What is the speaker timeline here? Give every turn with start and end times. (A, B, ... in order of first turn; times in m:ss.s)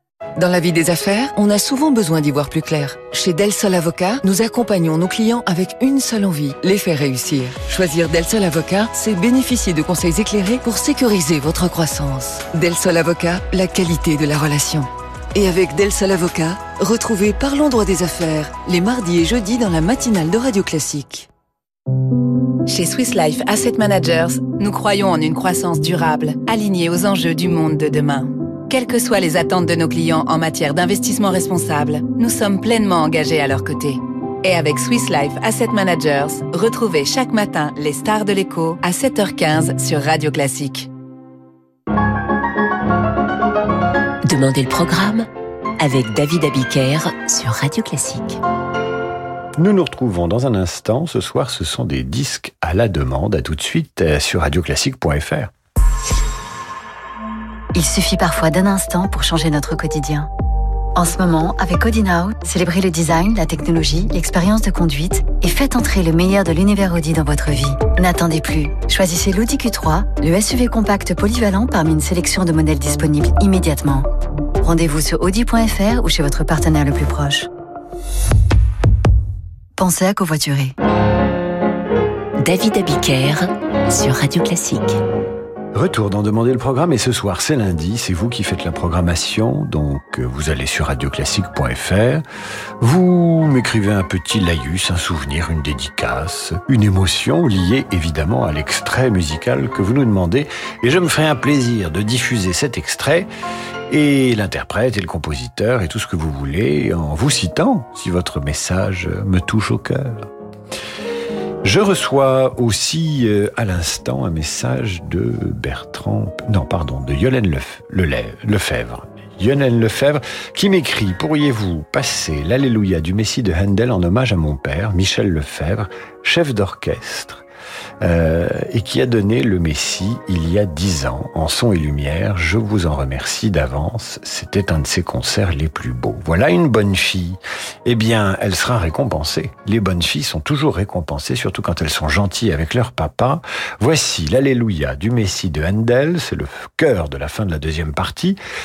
0:00.4-0:21.3 A
0:22.7-0:40.9 B
0:44.2-0:45.3 C
0:45.8-0:48.4 C
0:49.6-0:55.5 D
0:57.7-1:00.3 E
1:01.0-1:14.1 E
1:14.6-1:17.5 E
1:19.8-1:20.8 E
1:22.4-1:25.0 C
1:25.7-1:32.2 D
1:32.8-1:43.3 D
1:43.9-1:50.3 D
1:51.6-2:07.4 D
2:08.0-2:28.4 D